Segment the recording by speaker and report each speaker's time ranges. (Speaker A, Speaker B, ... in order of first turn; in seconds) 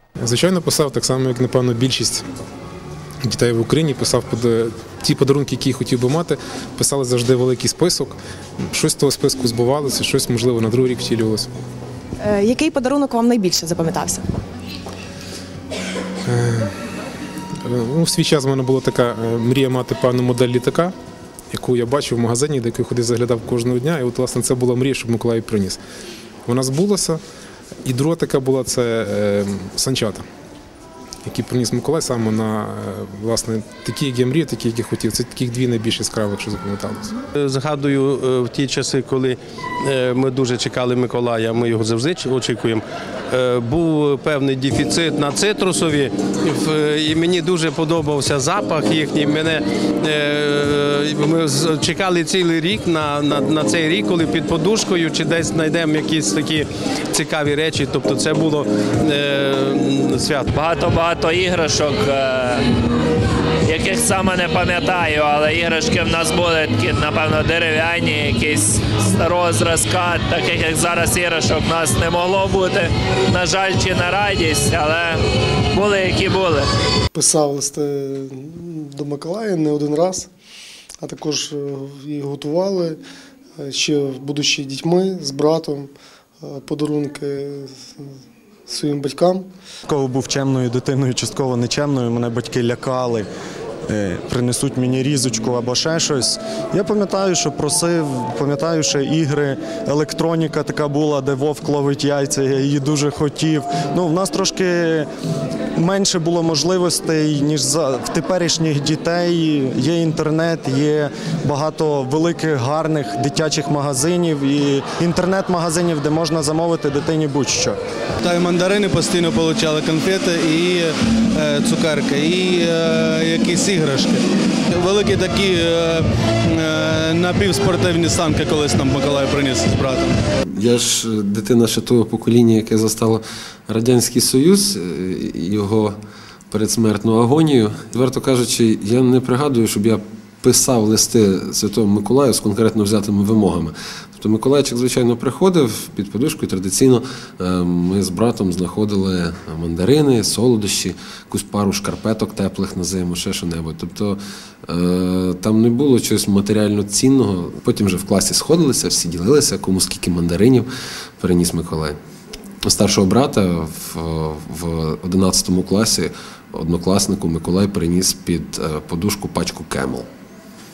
Speaker A: 0.2-2.2, 3.2-8.2, 8.7-11.5, 16.3-16.7, 17.6-20.9, 21.5-25.8, 26.4-27.2, 27.8-30.2, 31.2-37.1
Speaker B: 12.2-14.3
Speaker C: 37.4-60.5
Speaker D: 60.5-62.6, 63.6-75.2, 75.7-76.7
Speaker E: 77.1-80.3, 81.0-83.0, 83.6-88.0, 88.7-89.5
Speaker F: 89.9-93.3, 93.9-105.1, 105.8-117.8
Speaker G: 118.2-130.2
Speaker H: 130.5-135.9, 136.5-160.7, 161.2-162.0, 162.6-170.1